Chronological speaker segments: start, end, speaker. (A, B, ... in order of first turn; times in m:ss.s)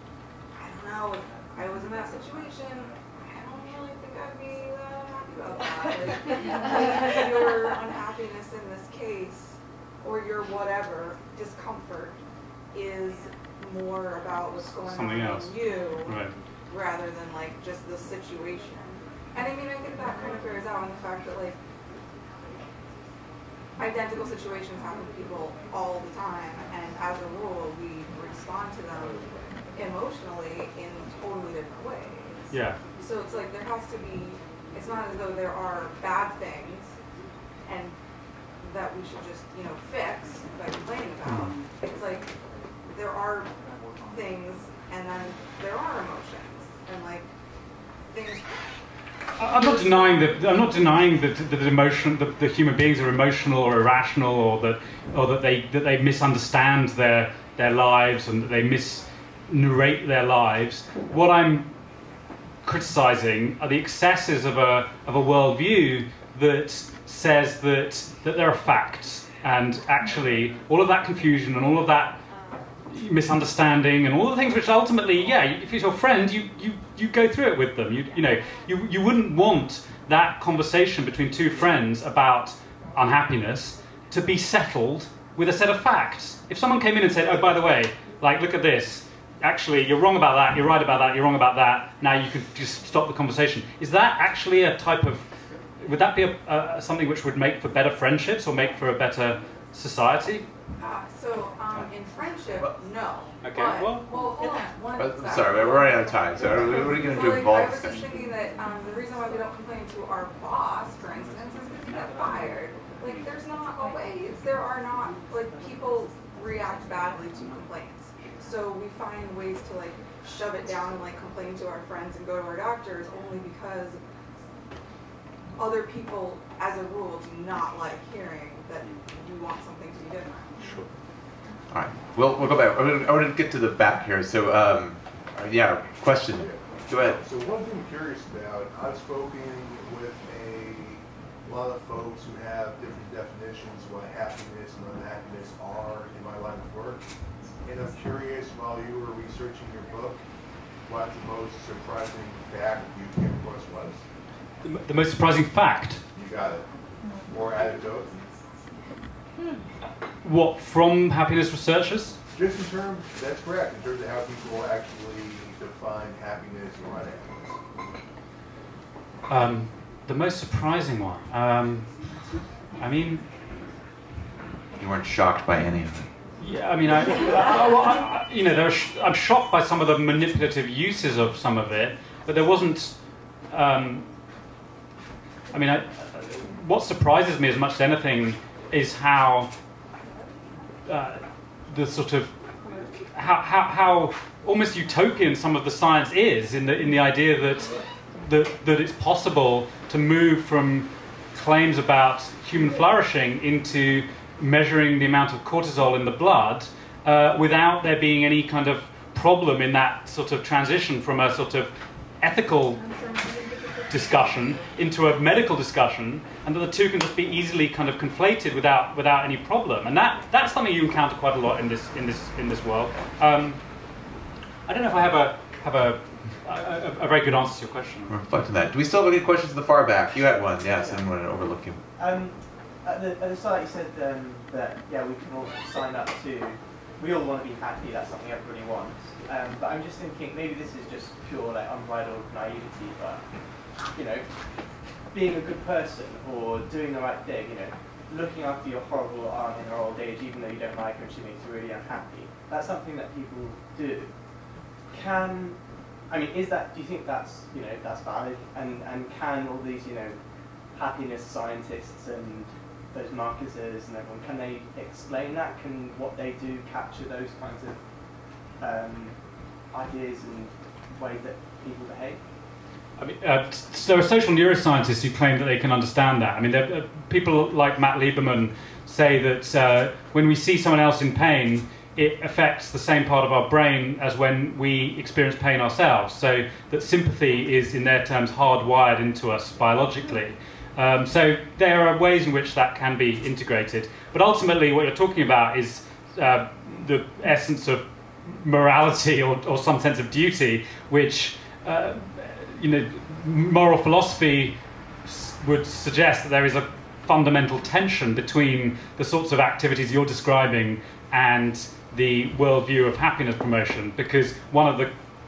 0:00.5-0:12.2 A
0:12.7-0:21.6 A
0:14.8-0:16.3 B
0:23.8-0:36.9 A
0:32.5-0:32.8 B
0:37.6-0:38.0 A
0:38.6-0:42.3 A
0:41.2-0:41.5 B
0:42.8-0:47.3 A
0:48.1-0:48.6 A
0:49.4-1:01.7 B
0:49.4-0:50.3 A
1:02.6-1:12.2 B
1:12.8-1:35.2 B
1:35.8-1:40.5 B
1:40.8-2:04.0 A
1:43.4-1:44.1 B
1:45.0-1:48.1 C
2:05.6-2:10.6 A
2:11.7-2:17.2 C
2:16.3-2:27.0 D
2:27.6-2:30.2 D
2:30.9-2:34.0 D
2:34.6-2:36.0 B
2:36.1-2:36.7 D
2:37.2-2:38.2 D
2:40.2-2:42.2 B
2:42.3-2:47.6 D
2:49.3-2:51.9 B
2:52.8-2:53.2 B
2:54.8-2:56.1 C
2:56.4-3:03.0 B
3:03.5-3:04.1 B
3:05.5-3:09.5 B
3:10.8-3:12.3 B
3:13.1-3:32.8 B
3:32.7-3:34.8 A
3:33.9-3:43.6 B
3:44.6-3:48.1 B
3:48.1-3:51.8 C
3:50.7-3:51.1 E
3:52.0-4:03.2 E
4:03.8-4:04.5 E
4:05.1-4:14.1 E
4:14.9-4:20.2 E
4:20.7-4:27.8 E
4:28.6-4:29.2 E
4:29.7-4:32.2 E
4:33.0-5:14.9 B